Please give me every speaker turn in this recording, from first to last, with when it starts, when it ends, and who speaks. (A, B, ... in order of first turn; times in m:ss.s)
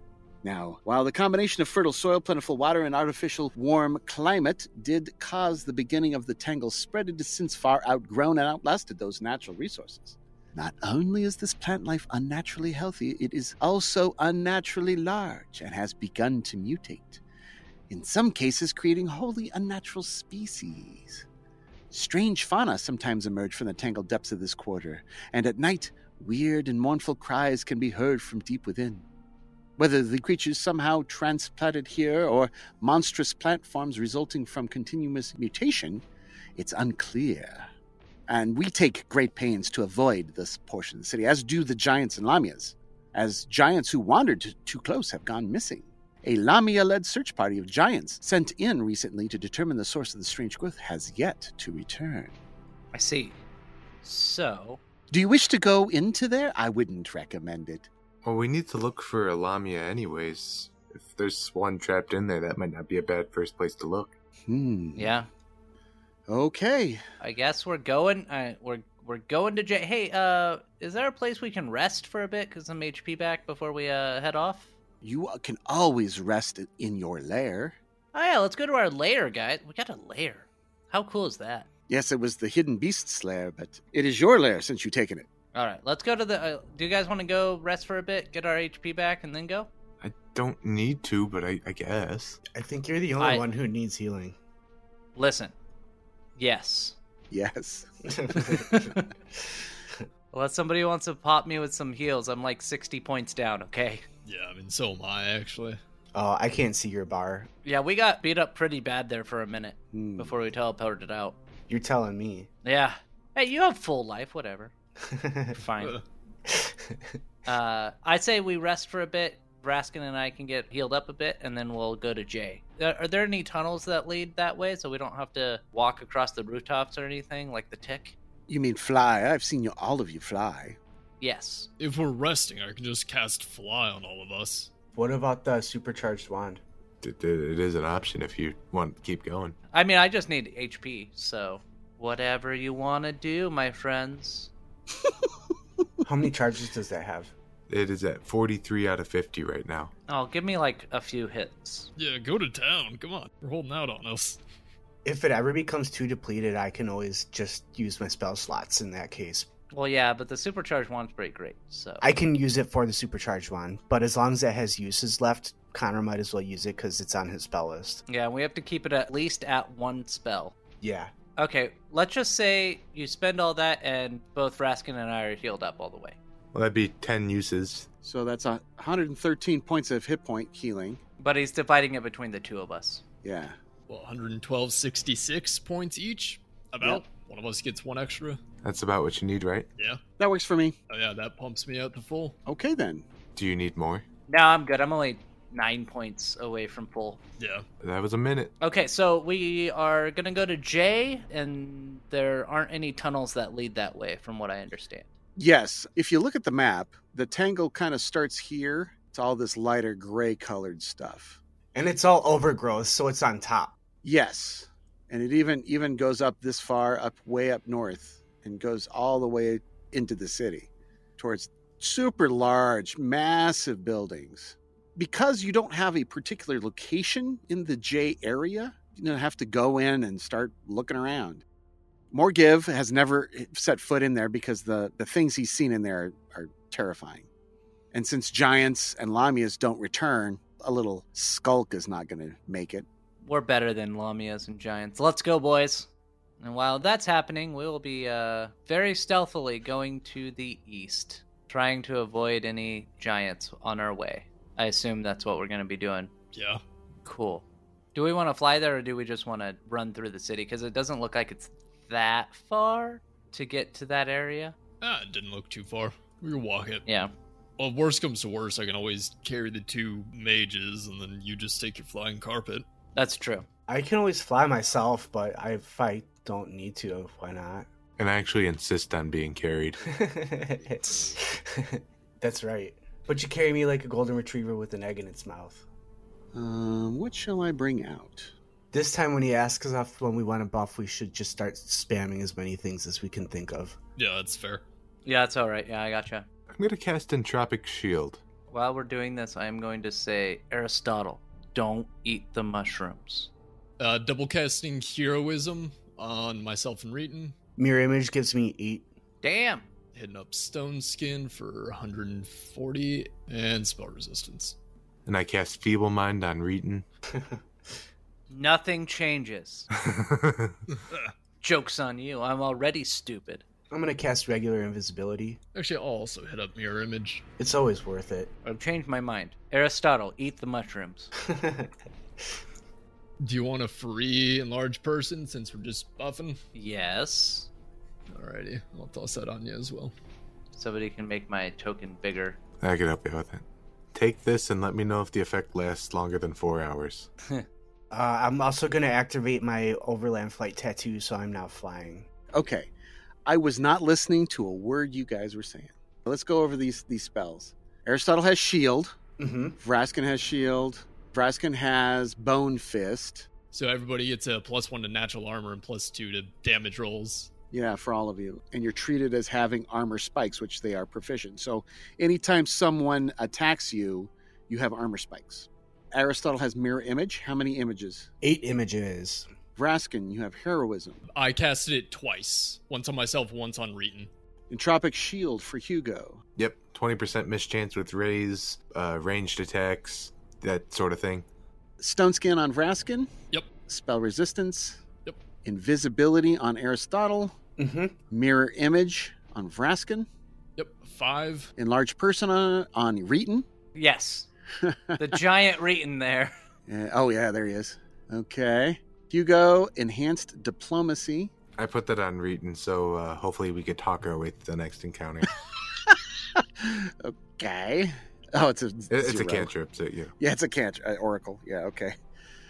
0:00.4-0:17.2 A
0:17.9-0:21.2 A
0:21.9-0:29.0 A
0:29.8-0:36.0 A
0:36.6-0:37.7 A
0:38.3-0:52.4 A
0:52.9-0:53.4 B
0:54.0-0:54.8 B
0:55.1-0:57.9 A
0:58.2-1:04.1 C
1:04.5-1:05.1 A
1:05.0-1:05.3 B
1:06.3-1:07.0 A
1:07.2-1:14.7 B
1:15.0-1:17.8 A
1:18.1-1:21.7 B
1:21.9-1:25.2 A
1:25.5-1:29.7 B
1:30.0-1:32.4 C
1:32.5-1:34.4 D
1:33.2-1:33.4 B
1:35.1-1:35.5 B
1:36.4-1:37.0 B
1:37.3-1:39.0 A
1:38.1-1:39.0 D
1:38.3-1:38.8 B
1:40.3-1:44.0 B
1:44.2-1:45.8 E
1:46.1-1:47.5 D
1:47.6-1:51.4 B
1:49.9-1:50.3 A
1:51.7-1:52.5 D
1:52.6-1:54.7 B
1:55.0-1:55.6 D
1:55.5-1:56.0 B
1:56.5-1:57.2 D
1:57.4-2:08.1 B
2:08.5-2:10.8 A
2:11.2-2:11.7 B
2:11.8-2:14.7 E
2:14.9-2:16.6 D
2:17.0-2:19.6 C
2:19.7-2:24.5 B
2:26.0-2:27.3 D
2:27.7-2:29.9 C
2:30.1-2:31.9 B
2:32.0-2:34.4 E
2:35.0-2:39.5 D
2:39.7-2:42.0 B
2:42.0-2:48.0 D
2:48.1-2:50.5 B
2:50.8-2:51.1 D
2:51.4-2:56.2 B
2:56.5-2:57.9 C
2:58.0-3:01.0 A
3:01.2-3:03.0 B
3:03.2-3:03.6 A
3:03.9-3:08.4 E
3:08.6-3:09.7 C
3:10.2-3:10.8 A
3:10.9-3:12.4 E
3:12.4-3:13.1 A
3:13.3-3:14.0 C
3:14.3-3:17.2 B
3:17.4-3:17.6 E
3:17.8-3:18.5 C
3:18.6-3:25.1 B
3:25.4-3:31.4 A
3:31.7-3:33.7 D
3:34.0-3:51.4 A
3:52.1-3:57.3 A
3:57.9-4:02.8 A
4:03.2-4:05.9 B
4:06.4-4:16.1 B
4:16.3-4:16.6 E
4:17.0-4:17.4 B
4:17.9-4:24.6 B
4:24.8-4:26.8 E
4:26.8-4:27.1 B
4:27.6-4:32.6 E
4:32.9-4:33.4 B
4:33.7-4:37.7 D
4:38.0-4:39.8 C
4:39.8-4:45.6 D
4:46.3-4:48.3 A
4:48.7-4:53.8 D
4:54.0-4:54.6 E
4:55.0-4:56.3 B
4:56.5-4:58.2 C
4:58.5-5:03.3 B
5:03.8-5:07.3 E
5:07.6-5:08.8 D
5:09.2-5:09.7 B
5:09.9-5:14.6 E
5:15.1-5:16.8 C
5:17.1-5:17.4 D
5:18.3-5:19.7 B
5:19.8-5:20.6 C
5:20.7-5:21.1 E
5:21.4-5:23.4 B
5:23.7-5:25.4 D
5:25.6-5:27.2 E
5:27.4-5:28.3 D
5:28.4-5:31.1 B
5:31.2-5:31.7 D
5:33.2-5:36.4 E
5:36.5-5:37.5 B
5:38.1-5:39.9 E
5:40.5-5:42.4 B
5:42.6-5:47.1 C
5:47.9-5:52.1 D
5:52.3-5:52.7 A
5:53.2-5:59.0 A
5:59.2-5:59.6 D
5:59.6-6:03.3 A
6:03.5-6:07.3 E
6:07.5-6:18.1 A
6:18.2-6:19.3 D
6:19.6-6:21.0 A
6:21.1-6:24.1 E
6:24.5-6:26.2 A
6:26.4-6:31.2 C
6:31.8-6:33.1 A
6:33.7-6:34.8 A
6:35.4-6:37.4 A
6:37.6-6:38.0 D
6:38.1-6:40.1 A
6:40.6-6:41.5 E
6:41.6-6:43.4 A
6:43.7-6:44.3 B
6:44.6-6:45.1 A
6:45.0-6:46.3 B
6:46.7-6:51.3 A
6:51.6-6:55.3 C
6:55.8-6:59.5 A
6:58.9-7:00.1 C
7:00.2-7:01.9 A